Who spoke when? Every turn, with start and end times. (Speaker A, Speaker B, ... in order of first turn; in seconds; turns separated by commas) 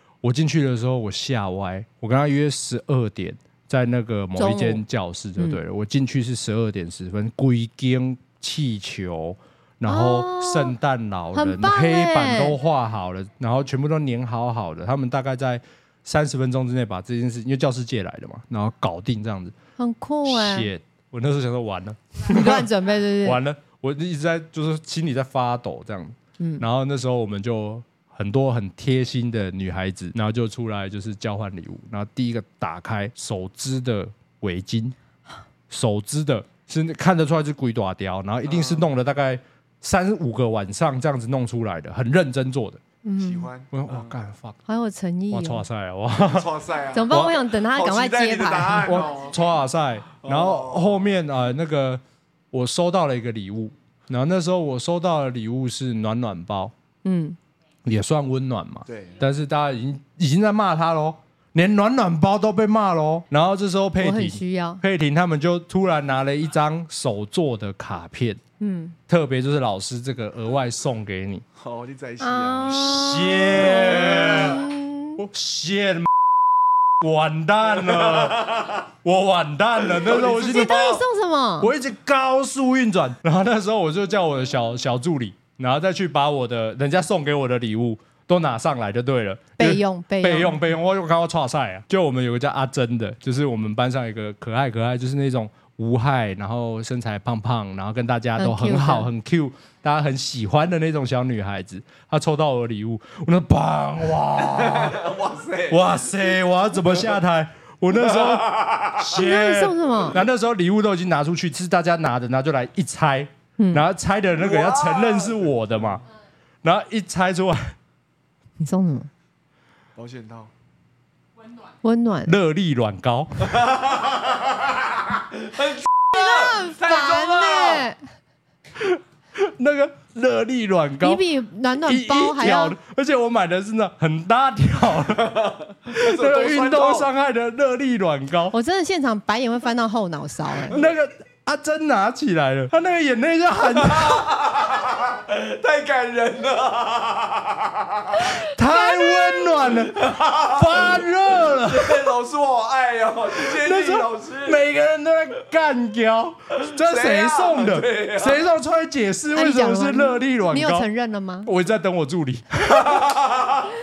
Speaker A: 0.2-19.5, Speaker B: 4.4-4.8, Speaker B: 9.8-10.7, Speaker B: 11.3-12.6, Speaker B: 19.8-20.7, Speaker A: 20.2-22.7, Speaker B: 22.3-23.4, Speaker A: 23.2-34.9, Speaker B: 26.4-26.6, Speaker A: 35.7-42.8, Speaker C: 38.5-38.9, Speaker B: 43.0-43.5, Speaker C: 43.2-44.1, Speaker A: 43.7-44.6, Speaker B: 44.7-45.6, Speaker A: 45.3-46.5, Speaker C: 46.1-49.4, Speaker B: 46.9-49.0, Speaker A: 47.1-47.3, Speaker A: 48.9-56.7, Speaker C: 50.2-51.0, Speaker B: 57.0-57.4, Speaker A: 57.8-68.4, Speaker C: 58.9-59.2, Speaker B: 64.0-64.8, Speaker B: 68.6-69.0, Speaker A: 69.1-71.4, Speaker C: 71.6-73.0, Speaker B: 72.2-75.2, Speaker A: 72.7-76.1, Speaker C: 73.8-74.5, Speaker A: 77.0-81.0, Speaker C: 77.9-78.8, Speaker C: 80.0-81.0, Speaker B: 80.4-81.7, Speaker A: 81.6-105.0, Speaker B: 89.6-90.5, Speaker B: 98.4-99.1, Speaker C: 104.4-106.0, Speaker A: 105.7-116.0, Speaker C: 108.2-109.0, Speaker B: 109.1-110.2, Speaker B: 113.6-113.8, Speaker C: 114.4-116.0, Speaker A: 116.6-117.7, Speaker B: 118.6-119.1, Speaker C: 120.0-120.5, Speaker B: 121.8-122.3, Speaker A: 122.2-123.7, Speaker C: 123.5-127.9, Speaker B: 126.1-128.0, Speaker A: 128.8-131.2, Speaker B: 131.0-132.8, Speaker A: 131.8-138.5, Speaker C: 135.2-137.1, Speaker B: 138.5-140.8, Speaker A: 140.7-144.4, Speaker C: 143.8-148.3, Speaker A: 148.4-152.1, Speaker C: 149.8-154.6, Speaker A: 153.3-160.9, Speaker C: 156.6-158.4, Speaker B: 159.3-161.5, Speaker A: 161.4-163.1, Speaker C: 162.7-163.7